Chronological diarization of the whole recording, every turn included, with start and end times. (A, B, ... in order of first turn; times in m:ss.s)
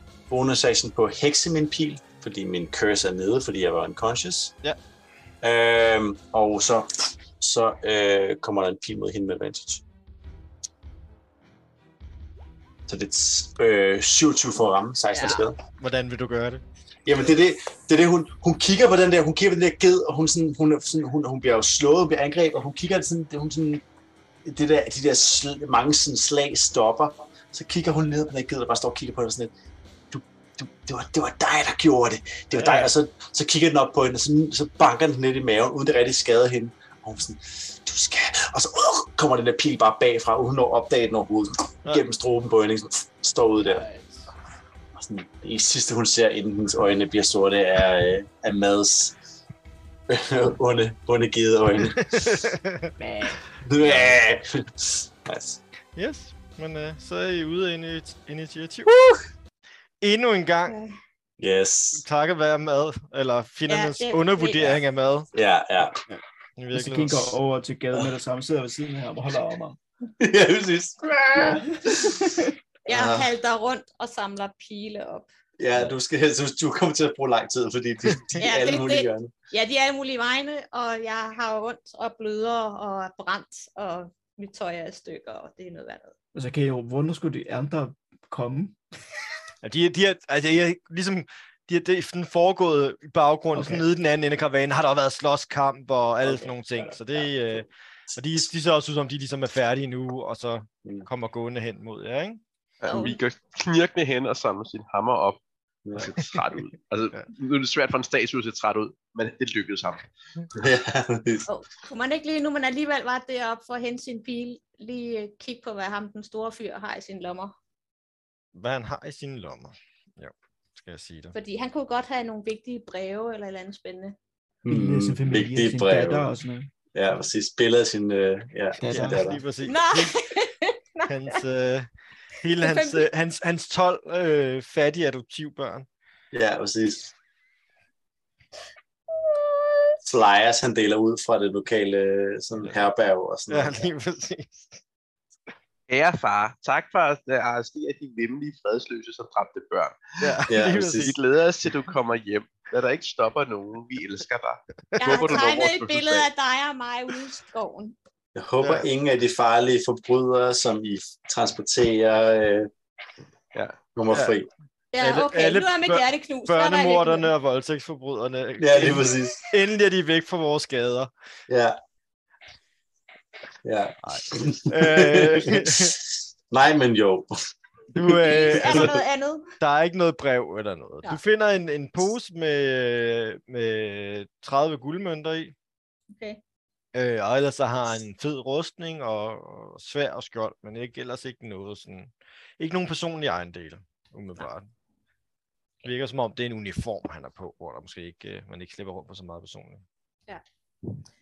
0:00.3-0:04.5 A
0:05.4-0:09.8 A
0:12.9-0:15.6 A
0:15.1-0:15.5 B
0:15.6-0:16.6 C
0:17.0-0:23.8 A
0:24.4-0:29.5 A
0:30.1-0:43.8 A
0:32.5-0:32.9 C
0:43.8-0:44.2 C
0:44.9-0:49.2 A
0:50.1-0:52.5 A
0:51.9-0:52.9 C
0:53.0-0:53.4 D
0:53.6-0:55.6 A
0:53.8-0:54.2 C
0:56.0-0:59.1 C
1:00.0-1:00.8 C
1:00.7-1:01.0 B
1:01.4-1:02.0 A
1:01.9-1:05.3 C
1:03.7-1:04.7 B
1:05.3-1:06.0 A
1:06.6-1:07.4 C
1:06.7-1:09.8 D
1:10.2-1:12.2 A
1:11.4-1:12.5 D
1:12.8-1:15.3 B
1:12.9-1:13.3 A
1:15.6-1:19.3 A
1:18.4-1:26.1 B
1:26.3-1:28.8 D
1:29.6-1:42.4 C
1:33.5-1:33.8 D
1:36.2-1:38.5 A
1:42.8-1:45.4 E
1:42.8-1:43.2 B
1:45.8-1:46.1 A
1:46.0-1:50.1 E
1:46.0-1:46.3 C
1:50.5-1:51.5 A
1:51.5-1:57.5 B
1:58.5-2:01.3 C
2:01.3-2:04.2 B
2:04.6-2:06.3 A
2:04.7-2:06.7 D
2:06.9-2:09.4 A
2:08.8-2:09.3 D
2:08.9-2:10.1 C
2:09.6-2:11.4 B
2:11.1-2:15.9 C
2:12.6-2:13.1 B
2:16.3-2:17.1 A
2:19.1-2:19.9 B
2:20.0-2:23.9 A
2:23.5-2:24.8 C
2:25.9-2:30.3 E
2:30.2-2:31.2 C
2:30.5-2:31.1 A
2:30.9-2:36.3 E
2:34.9-2:35.4 C
2:35.0-2:37.9 B
2:38.4-2:42.7 A
2:38.6-2:38.9 C
2:44.0-2:44.5 A
2:44.1-2:44.4 C
2:44.9-2:47.3 B
2:45.0-2:51.1 C
2:48.6-2:49.4 A
2:51.5-2:51.8 A
2:53.6-2:57.3 A
2:54.0-2:56.0 C
2:57.9-2:59.0 C
2:58.0-2:59.0 A
2:58.2-2:59.5 B
2:59.6-3:05.5 C
3:06.1-3:06.4 B
3:06.9-3:14.7 C
3:15.8-3:19.8 C